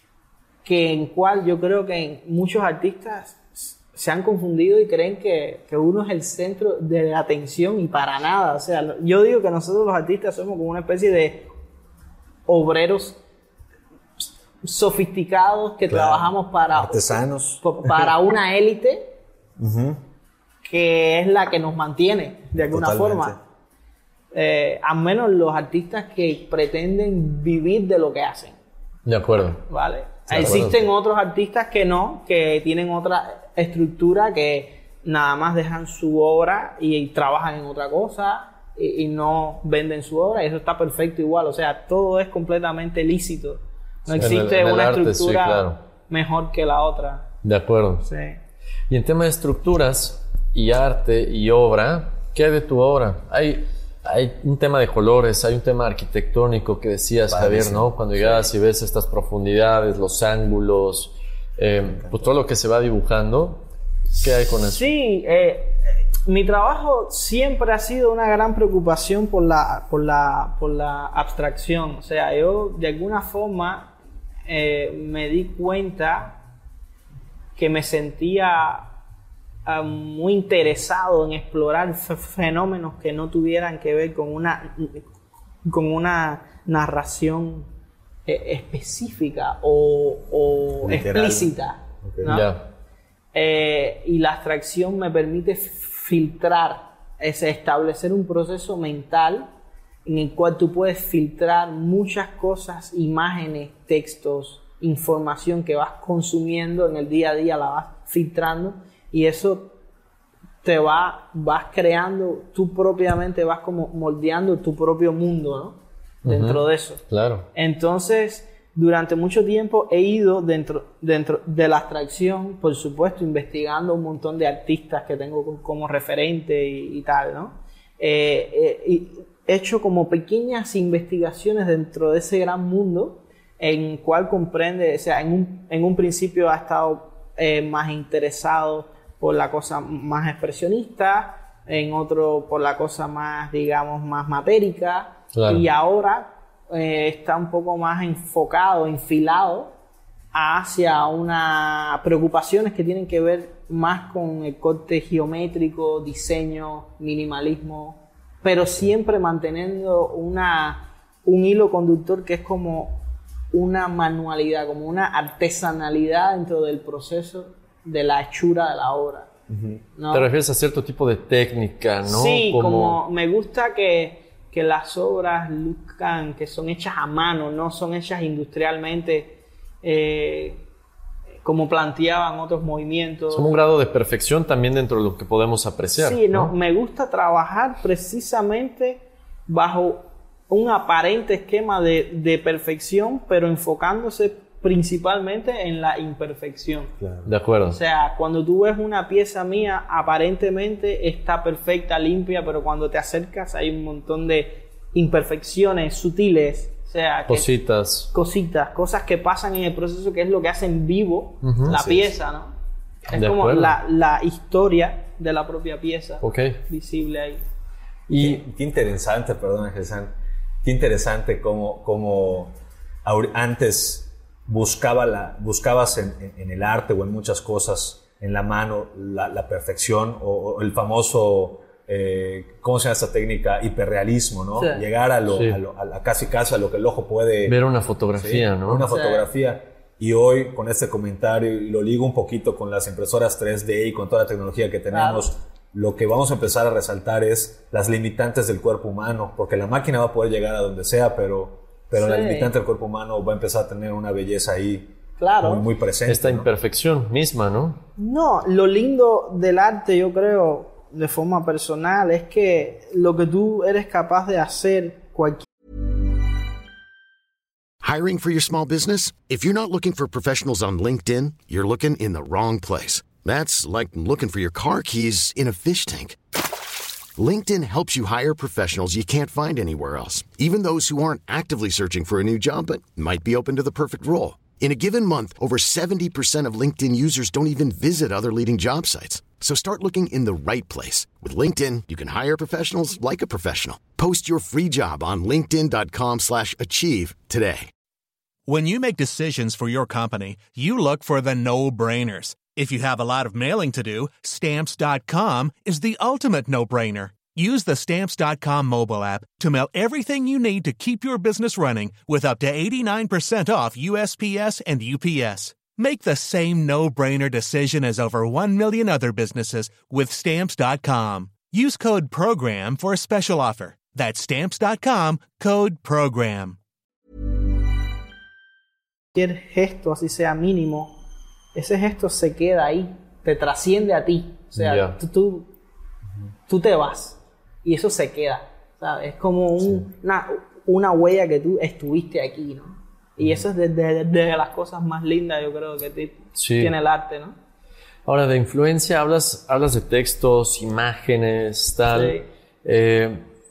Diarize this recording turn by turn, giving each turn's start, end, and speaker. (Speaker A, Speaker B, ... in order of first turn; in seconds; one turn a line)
Speaker A: 0.7-11.5
Speaker A: 12.5-13.2
Speaker A: 14.6-19.1
Speaker B: 15.9-18.1
Speaker B: 19.6-20.0
Speaker A: 20.6-23.4
Speaker B: 22.5-23.4
Speaker A: 24.3-28.6
Speaker C: 29.1-29.6
Speaker A: 29.7-47.3
Speaker B: 30.3-30.7
Speaker C: 30.3-30.9
Speaker C: 44.2-45.8
Speaker C: 47.4-48.0
Speaker A: 48.0-48.4
Speaker C: 48.9-64.9
Speaker B: 57.3-57.9
Speaker A: 58.2-58.5
Speaker B: 61.8-62.3
Speaker A: 64.6-73.9
Speaker A: 74.5-76.4
Speaker A: 77.6-78.9
Speaker A: 79.7-85.1
Speaker A: 85.6-87.7
Speaker A: 88.3-92.5
Speaker B: 90.8-92.4
Speaker C: 92.3-92.6
Speaker A: 93.3-99.5
Speaker A: 100.0-109.7
Speaker A: 110.6-117.0
Speaker C: 116.2-117.5
Speaker A: 117.5-149.7
Speaker C: 145.3-145.6
Speaker A: 150.3-163.0
Speaker A: 163.5-169.3
Speaker B: 169.5-169.8
Speaker A: 170.0-170.3
Speaker C: 170.1-173.0
Speaker A: 172.1-180.6
Speaker A: 181.4-183.5
Speaker C: 183.3-186.5
Speaker A: 186.0-196.9
Speaker B: 197.0-197.3
Speaker C: 197.3-197.8
Speaker A: 197.7-207.5
Speaker C: 207.3-208.1
Speaker A: 208.1-212.5
Speaker C: 211.4-211.8
Speaker B: 211.7-212.1
Speaker A: 213.1-217.4
Speaker C: 213.1-213.8
Speaker C: 216.2-216.6
Speaker C: 218.1-218.4
Speaker B: 218.2-222.5
Speaker B: 223.1-237.6
Speaker A: 234.6-234.8
Speaker C: 235.3-235.6
Speaker C: 237.5-238.9
Speaker B: 238.2-256.5
Speaker A: 238.9-239.3
Speaker A: 244.9-245.3
Speaker A: 251.9-252.5
Speaker A: 255.2-255.7
Speaker C: 256.1-257.8
Speaker A: 258.0-265.5
Speaker D: 267.8-276.2
Speaker D: 277.2-297.7
Speaker E: 298.5-326.6
Speaker A: 329.1-330.9
Speaker A: 331.5-335.5
Speaker C: 334.6-334.9
Speaker A: 336.5-347.4
Speaker B: 343.2-343.4
Speaker C: 346.4-346.7
Speaker C: 348.1-353.3
Speaker A: 351.9-352.3